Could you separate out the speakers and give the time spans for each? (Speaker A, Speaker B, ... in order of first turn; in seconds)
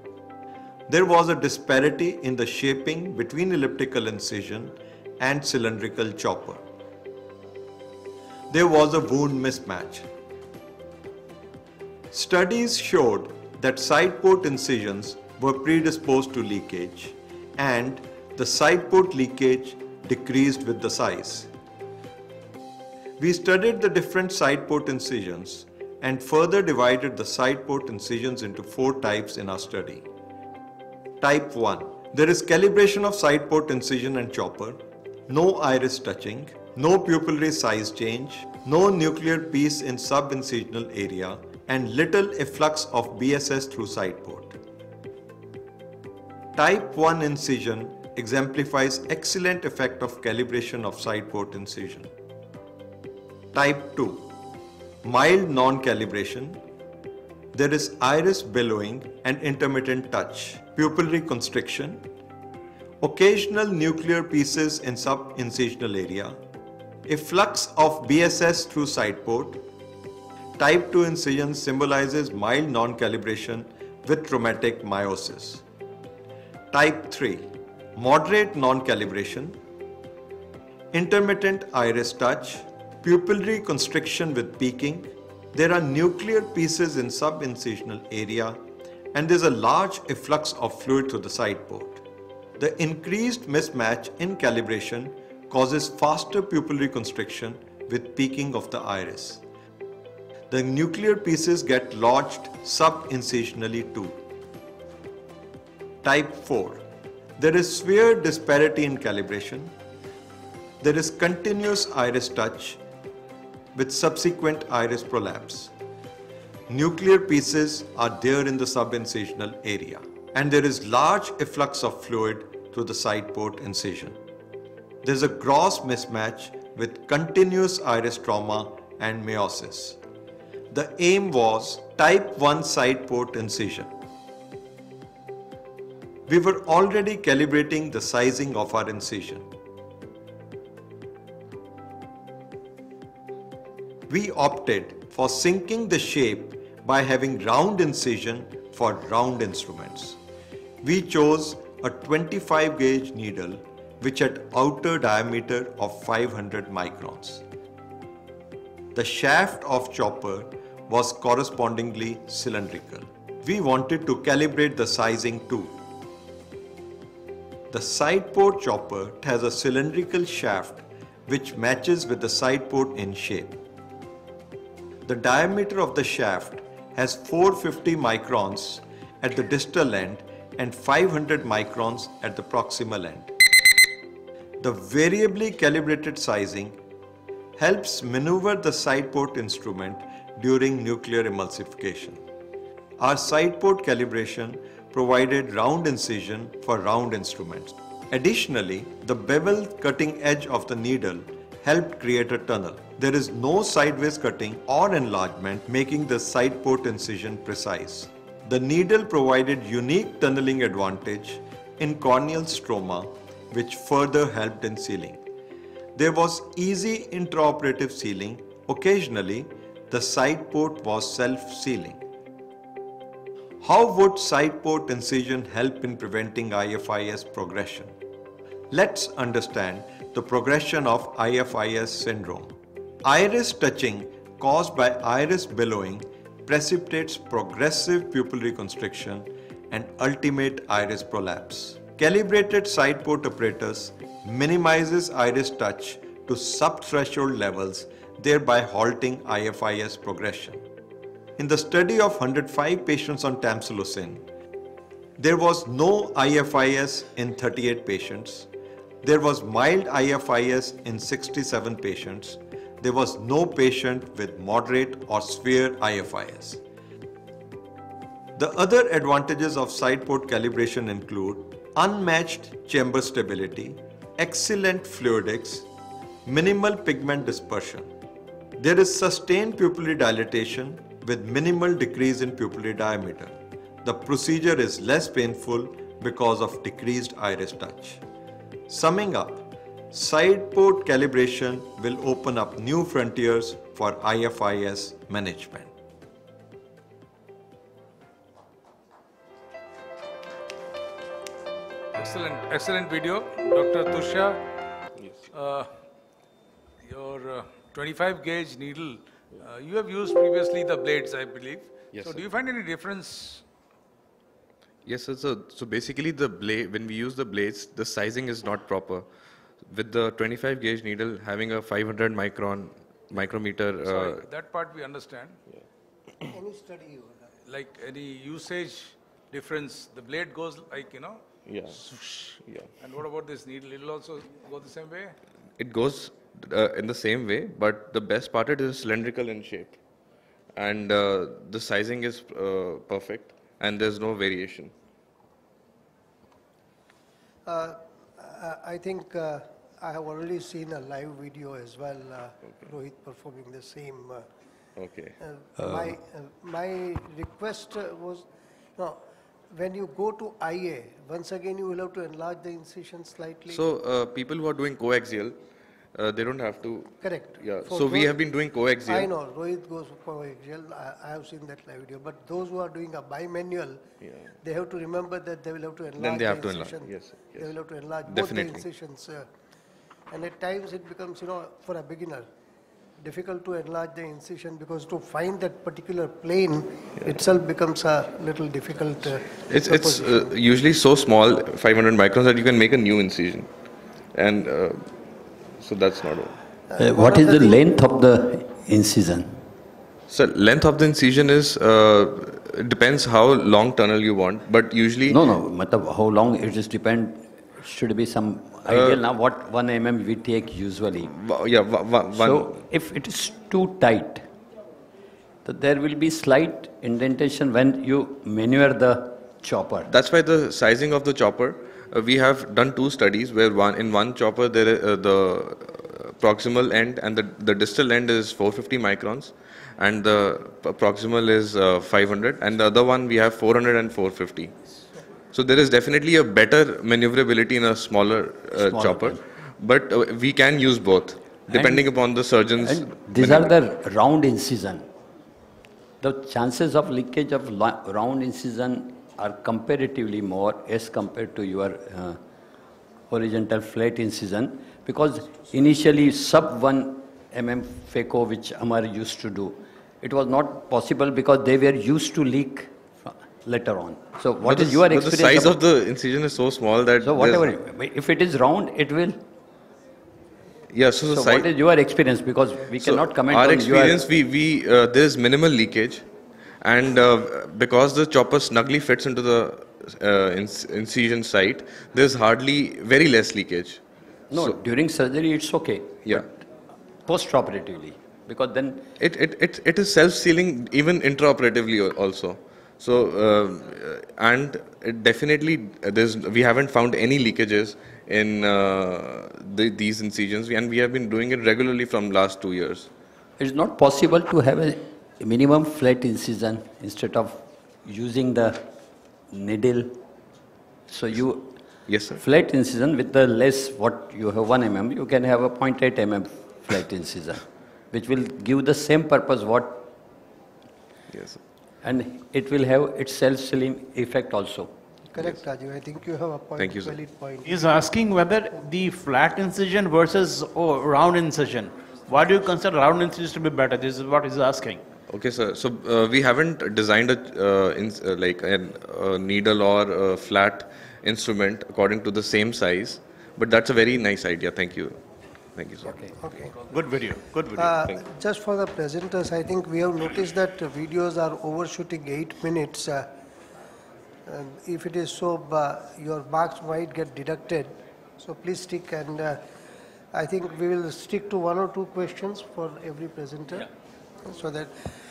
Speaker A: 0.9-6.6, 8.5-10.1, 12.1-21.5, 23.2-30.1, 31.2-44.5, 46.5-52.1, 53.5-54.3, 55.0-56.6, 57.5-62.0, 63.0-66.4, 67.1-69.6, 70.6-75.6, 76.7-79.5, 80.9-88.6, 89.1-92.0, 92.6-99.4, 100.5-104.2, 106.0-106.8, 107.4-109.7, 110.8-112.8, 113.7-115.7, 116.7-124.2, 125.0-130.0, 130.7-133.9, 136.3-139.5, 144.1-150.2, 150.8-157.4, 158.9-165.7, 167.7-173.6, 175.0-183.3, 184.6-186.8, 187.6-192.2, 193.0-215.2, 215.9-222.0, 223.6-227.9, 228.7-232.5, 233.0-250.6, 251.4-254.2, 255.2-258.5, 259.0-266.6, 268.4-275.6, 276.2-277.9, 278.6-288.0, 288.7-295.7
Speaker B: 301.9-304.4, 305.3-305.7, 306.8-313.4, 323.8-325.4, 327.5-335.2
Speaker C: 305.0-305.3, 311.9-312.2, 314.8-319.1, 319.6-324.2, 331.4-331.8, 332.4-332.7, 335.6-339.8, 340.5-344.7, 352.4-352.7, 354.8-355.1, 363.5-365.4, 365.9-369.1, 374.0-374.4, 375.9-377.5, 378.1-378.6, 389.5-393.5, 394.1-395.0, 395.6-396.4, 400.1-405.2, 408.6-409.0, 411.0-412.5, 419.9-434.6, 435.3-443.5, 464.4-467.5, 470.7-471.5, 472.7-476.1, 476.6-483.8, 489.0-502.9, 511.9-512.2, 521.1-521.4, 526.6-527.0, 535.1-545.0, 545.5-546.8, 547.6-548.0
Speaker D: 326.3-327.3, 347.4-354.2, 355.2-363.6, 367.0-368.2, 368.8-373.8, 374.4-379.3, 380.1-382.3, 383.0-390.3, 396.7-397.6, 525.1-527.7, 545.8-546.5, 547.5-553.1, 554.2-559.4, 560.1-563.7, 564.2-564.8
Speaker E: 355.6-355.9, 396.8-399.4, 405.1-411.1, 412.1-414.3, 415.4-419.9, 438.5-439.2, 441.4-442.0, 442.6-444.9, 446.0-452.2, 453.1-465.6, 467.0-469.2, 471.0-474.1, 484.3-486.5, 487.0-488.9, 503.4-508.6, 509.3-510.0, 510.9-519.9, 521.8-524.7
Speaker F: 527.5-534.8